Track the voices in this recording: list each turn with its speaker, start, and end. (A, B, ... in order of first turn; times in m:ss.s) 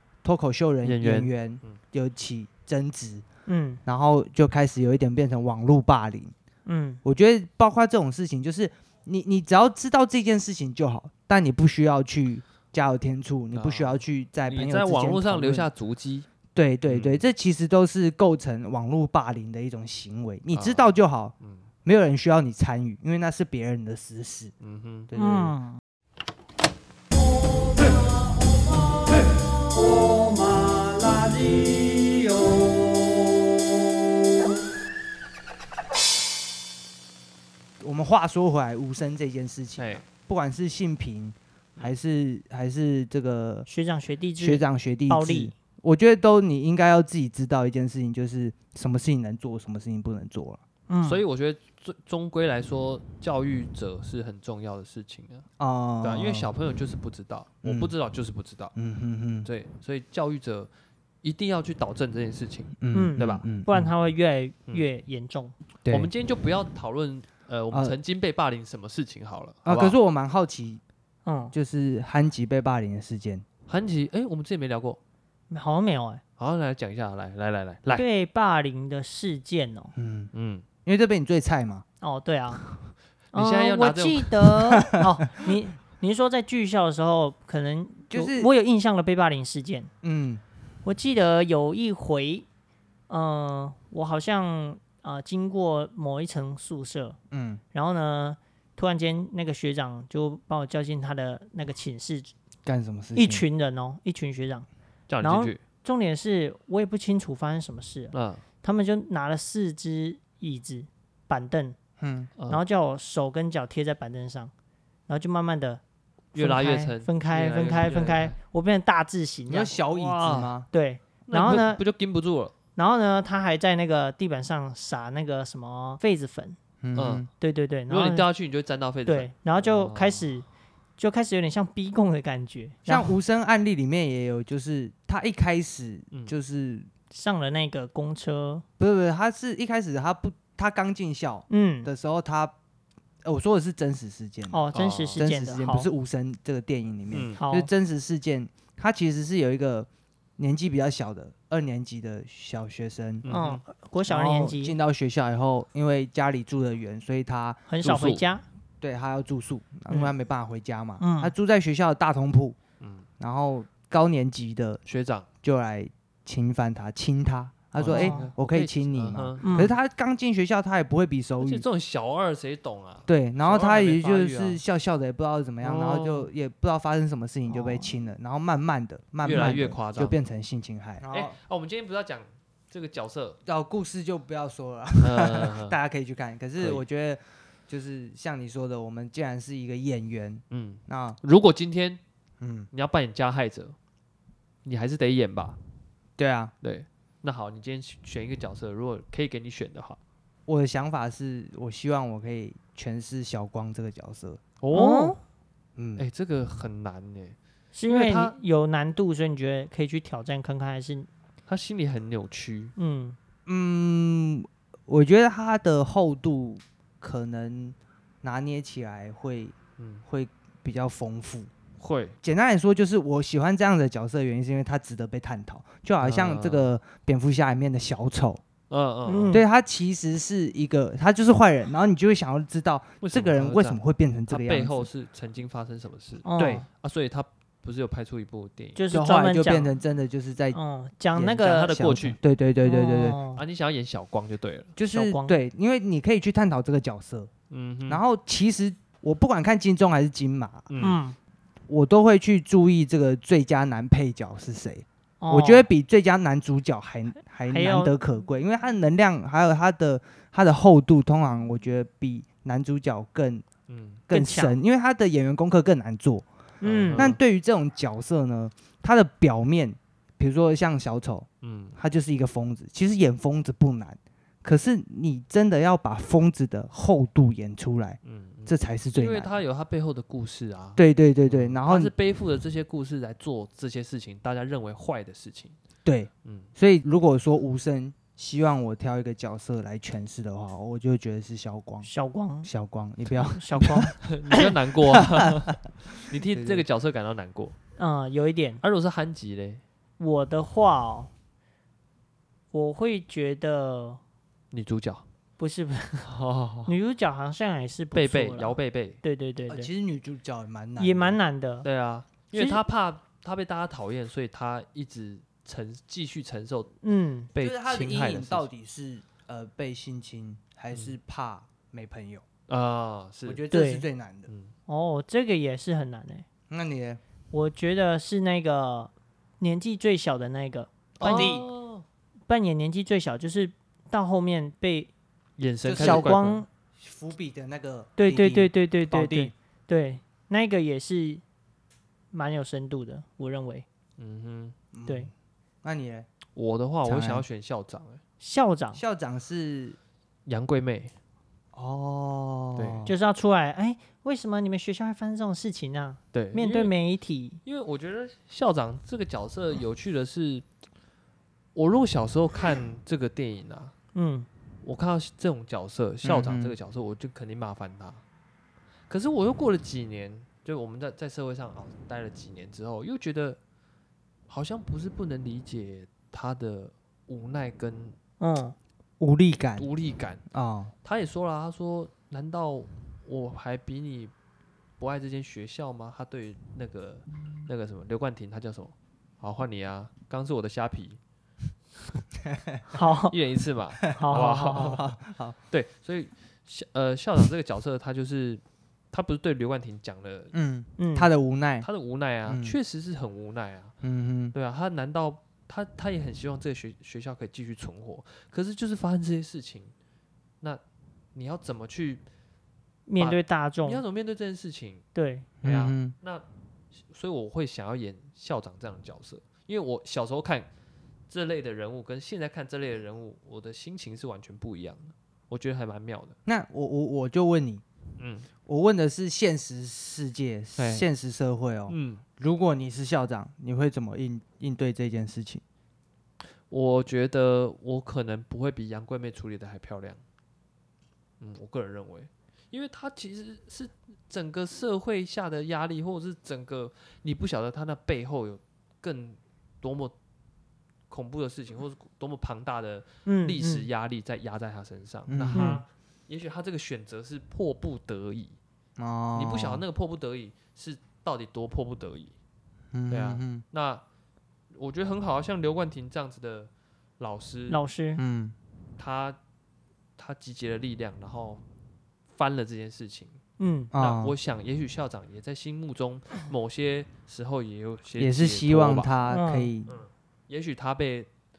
0:00.2-0:03.2 A
0:00.8-0:01.8 B
0:03.5-0:03.8 C
0:03.8-0:06.3 A
0:06.6-0:07.0 C
0:07.0-0:15.7 A
0:13.5-0:16.3 B
0:16.5-0:21.3 A
0:16.8-0:17.2 B
0:20.5-0:21.7 B
0:21.8-0:24.5 A
0:24.6-0:25.1 B
0:25.1-0:25.6 A
0:25.1-0:25.8 C
0:37.8-0:43.7 A
0:39.8-0:40.0 B
0:43.7-0:45.5 C
0:44.4-0:50.6 A
0:50.9-0:51.2 C
0:51.0-0:55.4 B
0:55.6-0:56.5 A
0:56.0-0:58.7 B
0:57.6-0:57.9 A
0:58.8-0:59.5 A
0:59.4-1:00.7 B
1:01.2-1:03.5 B
1:02.8-1:03.9 A
1:02.9-1:05.5 C
1:05.8-1:06.1 A
1:05.9-1:10.0 B
1:07.7-1:08.0 A
1:09.6-1:10.8 A
1:11.2-1:11.5 C
1:11.5-1:13.4 A
1:13.7-1:15.0 B
1:15.5-1:16.2 C
1:16.4-1:18.0 B
1:17.9-1:19.9 C
1:20.0-1:20.3 A
1:20.3-1:20.6 B
1:20.8-1:21.8 A
1:22.0-1:22.6 C
1:23.3-1:24.6 B
1:23.3-1:29.9 C
1:28.1-1:28.5 A
1:30.0-1:30.4 A
1:30.8-1:32.4 C
1:33.1-1:37.2 C
1:37.3-1:37.6 A
1:37.7-1:42.3 C
1:42.6-1:43.4 A
1:43.1-1:44.7 C
1:45.1-1:45.6 B
1:45.2-1:51.8 C
1:48.1-1:48.4 B
1:52.0-1:52.3 A
1:52.4-1:52.6 B
1:52.5-1:54.5 C
1:55.1-1:55.8 C
1:56.3-1:58.4 B
1:56.3-1:59.9 C
1:59.5-2:00.7 A
1:59.9-2:00.5 B
2:00.7-2:01.8 C
2:01.3-2:02.5 B
2:02.8-2:06.6 C
2:06.8-2:07.3 A
2:06.9-2:07.2 B
2:07.4-2:08.3 C
2:07.9-2:10.2 B
2:09.0-2:10.5 C
2:11.0-2:13.2 C
2:12.8-2:16.9 A
2:17.1-2:18.6 C
2:18.8-2:22.5 A
2:21.5-2:21.9 C
2:23.2-2:24.6 A
2:24.5-2:25.9 C
2:24.7-2:25.2 B
2:25.2-2:33.3 A
2:27.1-2:27.4 B
2:27.4-2:27.7 C
2:33.2-2:33.6 B
2:33.3-2:34.8 C
2:34.0-2:37.6 A
2:37.7-2:38.4 C
2:37.8-2:38.2 B
2:38.8-2:42.6 A
2:41.0-2:41.3 C
2:42.8-2:43.0 B
2:43.2-2:44.8 A
2:44.8-2:45.3 B
2:45.4-2:51.6 A
2:47.8-2:49.6 B
2:47.9-2:48.3 C
2:49.4-2:49.8 C
2:51.4-2:54.6 B
2:53.1-3:01.4 A
2:55.6-2:56.3 B
2:57.5-2:57.9 C
2:59.2-3:00.2 B
3:01.1-3:03.4 B
3:03.4-3:11.2 A
3:05.0-3:05.8 B
3:06.6-3:06.8 B
3:10.5-3:12.0 B
3:12.4-3:12.7 A
3:12.7-3:13.7 B
3:14.6-3:15.6 B
3:16.2-3:16.5 A
3:16.6-3:20.0 B
3:20.5-3:24.4 A
3:24.6-3:25.2 B
3:24.7-3:25.2 C
3:25.8-3:26.0 A
3:26.0-3:27.4 B
3:27.7-3:31.1 C
3:27.9-3:28.4 B
3:31.5-3:32.7 B
3:32.8-3:33.2 C
3:33.4-3:41.5 A
3:39.8-3:40.0 B
3:41.8-3:42.2 B
3:42.2-3:48.4 A
3:46.0-3:46.7 B
3:48.7-3:49.4 B
3:49.0-3:49.4 C
3:49.3-3:54.9 A
3:53.0-3:58.8 B
3:56.2-3:56.7 C
3:56.4-3:56.6 A
3:58.8-3:59.7 C
3:58.9-4:00.6 A
4:00.5-4:01.7 C
4:01.1-4:03.2 A
4:01.4-4:02.2 B
4:02.6-4:03.4 C
4:03.3-4:04.7 B
4:04.8-4:07.3 A
4:04.9-4:05.4 C
4:07.5-4:08.0 B
4:07.9-4:10.7 A
4:10.7-4:11.0 B
4:10.8-4:11.2 C
4:11.7-4:23.4 A
4:15.2-4:15.7 C
4:17.4-4:17.9 C
4:23.7-4:24.1 B
4:24.1-4:24.6 C
4:24.1-4:26.3 A
4:26.6-4:27.2 C
4:26.6-4:27.2 B
4:27.0-4:39.3 A
4:31.4-4:31.8 B
4:38.0-4:45.6 B
4:40.8-4:41.9 A
4:45.8-4:51.9 A
4:46.2-4:46.5 B
4:51.8-4:52.5 C
4:52.4-4:53.8 A
4:53.3-4:54.5 C
4:53.6-4:57.5 B
4:56.3-4:56.6 A
4:57.8-4:58.6 C
4:58.6-4:59.6 B
5:00.0-5:01.1 C
5:02.5-5:04.0 C
5:04.5-5:05.0 B
5:05.4-5:06.1 C
5:06.0-5:06.7 B
5:06.7-5:09.7 C
5:07.9-5:09.0 B
5:09.5-5:11.2 A
5:10.8-5:11.7 C
5:11.6-5:16.7 B
5:12.3-5:12.6 C
5:16.8-5:17.3 C
5:17.3-5:18.5 B
5:17.4-5:22.2 A
5:22.5-5:23.4 B
5:23.2-5:24.3 A
5:23.5-5:23.9 C
5:24.3-5:24.5 B
5:24.7-5:26.2 C
5:26.5-5:27.0 A
5:27.3-5:31.4 C
5:31.0-5:31.8 B
5:31.0-5:31.4 A
5:32.3-5:34.9 C
5:35.4-5:36.4 B
5:35.6-5:36.1 A
5:35.7-5:36.5 C
5:36.8-5:39.3 A
5:38.0-5:41.2 C
5:42.1-5:43.6 C
5:44.0-5:44.5 B
5:44.7-5:45.1 A
5:45.6-5:46.1 A
5:46.3-5:48.0 B
5:46.8-5:47.2 A
5:48.2-5:48.8 C
5:48.7-5:49.8 A
5:50.2-5:50.9 B
5:51.5-5:52.9 A
5:52.6-5:52.8 B
5:52.8-5:57.4 C
5:56.1-5:56.7 B
5:57.4-6:00.4 B
6:01.5-6:03.7 B
6:03.9-6:04.3 C
6:04.6-6:08.0 B
6:06.0-6:06.6 A
6:08.9-6:13.4 B
6:14.3-6:18.0 B
6:18.2-6:18.6 C
6:19.0-6:19.7 A
6:19.6-6:20.2 B
6:20.3-6:20.7 A
6:20.8-6:24.1 B
6:24.8-6:31.0 B
6:32.3-6:32.6 A
6:32.7-6:33.2 C
6:33.1-6:34.9 B
6:33.9-6:34.8 C
6:34.0-6:35.4 A
6:35.5-6:40.3 B
6:40.3-6:41.6 A
6:40.8-6:41.1 C
6:41.6-6:43.7 B
6:42.2-6:42.6 A
6:43.8-6:44.3 A
6:44.3-6:49.7 B
6:51.1-6:52.0 B
6:52.9-6:53.8 C
6:53.0-6:54.9 B
6:54.9-6:55.3 C
6:55.4-6:55.9 A
6:55.4-6:56.2 B
6:56.7-7:00.5 B
7:01.1-7:06.2 B
7:06.2-7:07.6 A
7:08.0-7:08.3 B
7:08.4-7:15.4 A
7:10.6-7:10.9 B
7:11.7-7:12.0 B
7:16.5-7:20.0 B
7:21.2-7:29.9 B
7:30.9-7:38.4 B
7:33.0-7:33.7 C
7:35.1-7:35.6 A
7:35.3-7:35.6 C
7:38.8-7:39.6 A
7:39.1-7:42.1 B
7:42.7-7:43.4 A
7:42.9-7:43.8 B
7:44.5-7:47.6 B
7:47.5-7:48.0 C
7:48.0-7:48.3 A
7:48.8-7:49.2 B
7:50.0-7:51.4 B
7:52.1-7:53.2 B
7:53.4-7:53.7 C
7:53.7-7:54.2 A
7:53.8-7:59.0 B
7:58.0-7:59.7 A
7:59.1-7:59.5 C
7:59.7-8:01.1 B